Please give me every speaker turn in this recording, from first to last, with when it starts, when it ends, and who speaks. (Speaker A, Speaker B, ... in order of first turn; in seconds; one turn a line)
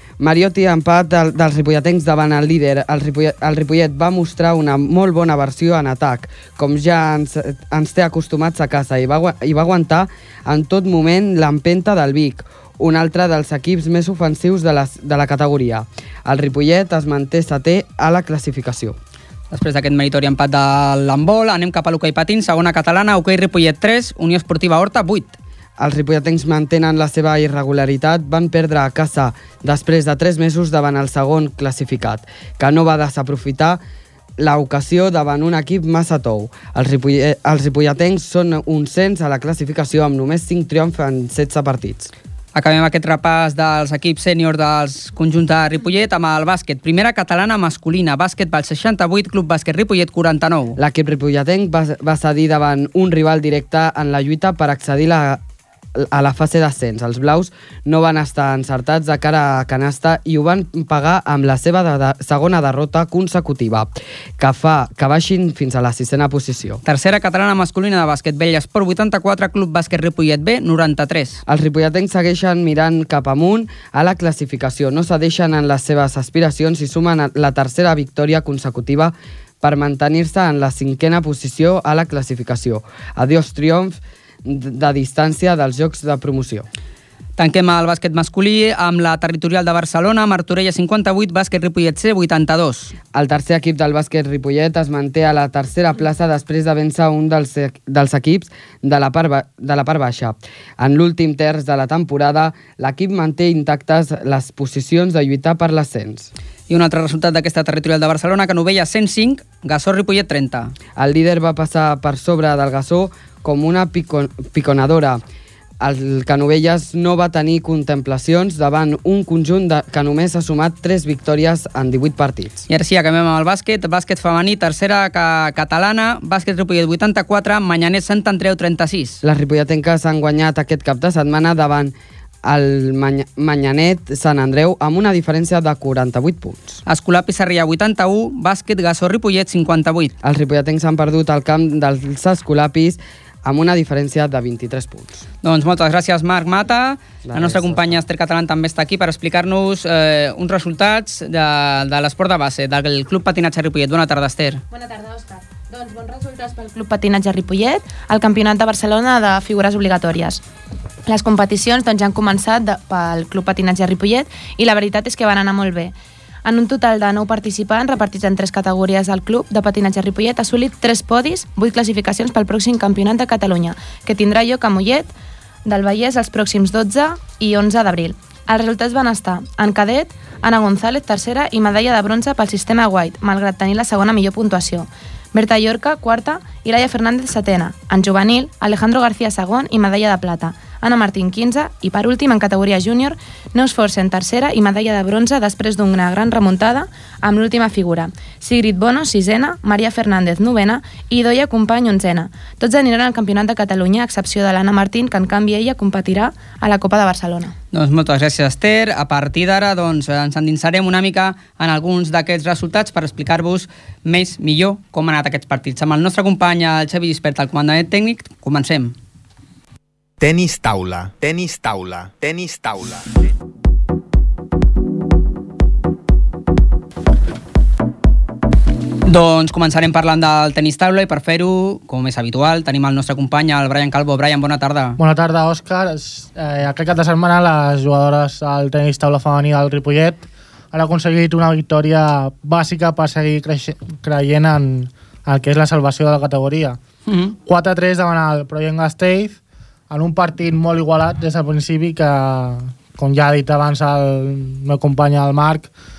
Speaker A: 0.2-19.0
Speaker B: 19.5-25.4
Speaker A: 25.8-33.8
Speaker A: 34.4-42.1
Speaker B: 42.5-50.8
Speaker A: 50.8-55.4
Speaker A: 56.0-66.8
Speaker B: 66.8-71.4
Speaker A: 71.5-86.7
Speaker B: 87.4-93.0
Speaker A: 93.1-106.3
Speaker B: 106.7-110.7
Speaker A: 111.0-115.2
Speaker A: 115.8-122.7
Speaker B: 122.7-129.2
Speaker A: 129.2-131.9
Speaker A: 132.4-136.8
Speaker B: 136.9-140.1
Speaker A: 140.2-145.2
Speaker B: 145.4-154.6
Speaker A: 147.2-147.9
Speaker C: 154.7-160.4
Speaker C: 161.1-165.9
Speaker C: 166.4-175.1
Speaker C: 175.7-207.5
Speaker B: 207.7-218.9
Speaker D: 220.2-223.1
Speaker B: 229.1-235.0
Speaker E: 235.0-246.8
Speaker B: 247.1-247.4
Speaker E: 247.5-255.7